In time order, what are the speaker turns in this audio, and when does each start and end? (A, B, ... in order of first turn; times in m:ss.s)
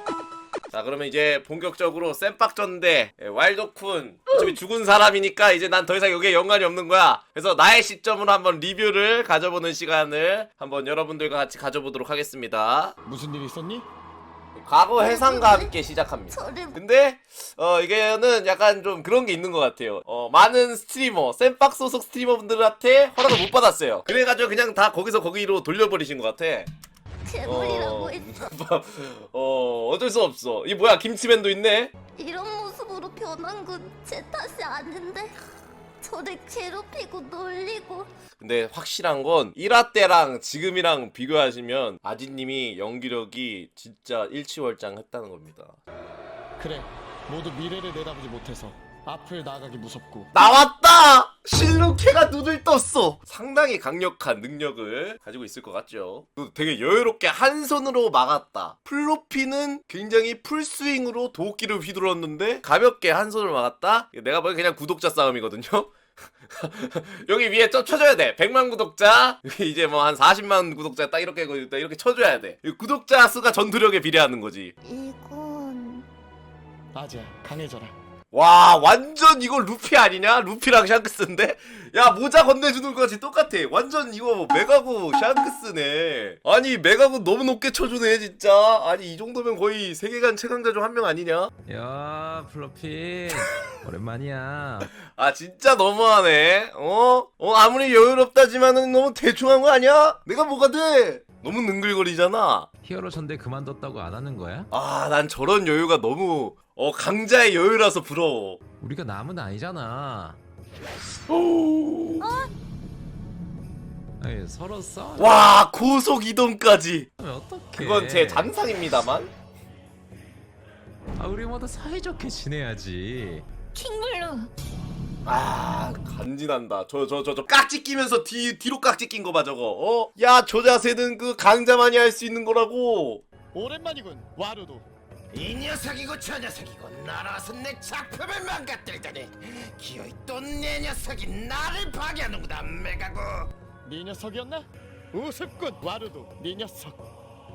0:00.7-0:13.0 A
0:13.0-0:13.9 B
0:14.5-0:26.7 A
0:15.0-0:15.7 C
0:16.3-0:16.8 C
0:27.2-0:28.3 C
0:27.4-0:31.9 A
0:32.2-0:35.4 C
0:36.0-0:38.1 C
0:38.4-0:45.8 A
0:46.6-0:50.3 B
0:50.3-1:05.9 A
1:06.5-1:14.7 A
1:14.8-1:16.0 C
1:16.9-1:18.0 B
1:18.3-1:31.5 A
1:31.7-1:34.9 D
1:35.0-1:42.7 A
1:42.8-1:44.7 D
1:44.7-1:48.6 A
1:48.8-1:50.4 D
1:51.3-1:52.3 A
1:52.2-1:52.5 C
1:54.2-1:55.4 D
1:55.2-1:57.1 A
1:57.2-1:58.5 D
1:57.7-1:59.3 A
2:01.2-2:03.4 D
2:03.7-2:04.5 C
2:05.2-2:13.2 A
2:13.5-2:14.8 B
2:15.3-2:23.5 E
2:23.8-2:27.0 B